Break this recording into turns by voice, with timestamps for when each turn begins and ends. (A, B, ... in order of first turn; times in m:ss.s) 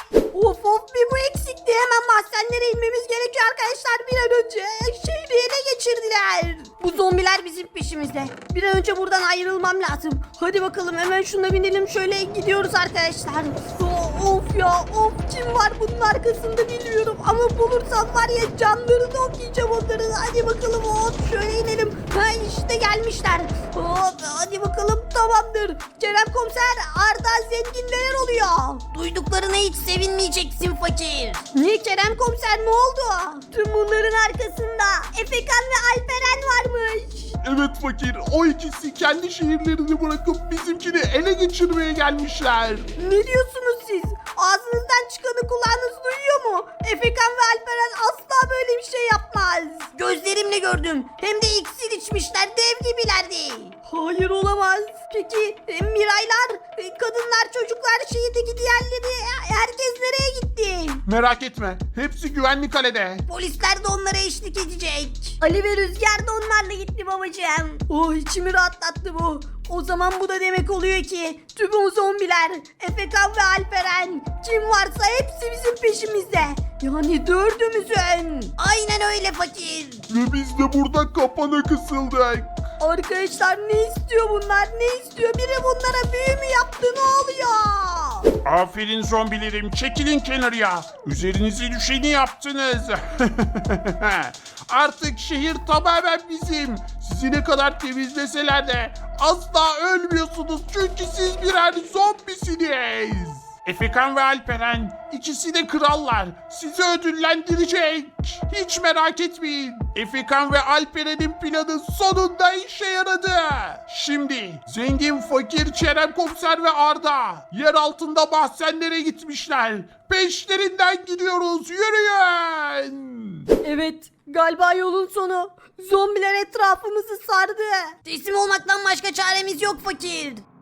0:00.3-0:28.8 A
0:28.9-0:31.4 B
0:31.5-0:37.3 A
0:37.4-0:42.9 C
0:43.0-0:49.9 A
0:50.0-0:53.7 B
0:53.8-1:01.0 A
1:01.1-1:03.2 C
1:03.3-1:05.2 B
1:05.4-1:06.0 A
1:06.1-1:07.8 B
1:07.8-1:18.5 A
1:18.6-1:20.0 B
1:20.1-1:22.5 C
1:22.8-1:28.3 A
1:28.4-2:03.5 C
2:03.6-2:08.0 A
2:08.1-2:10.4 B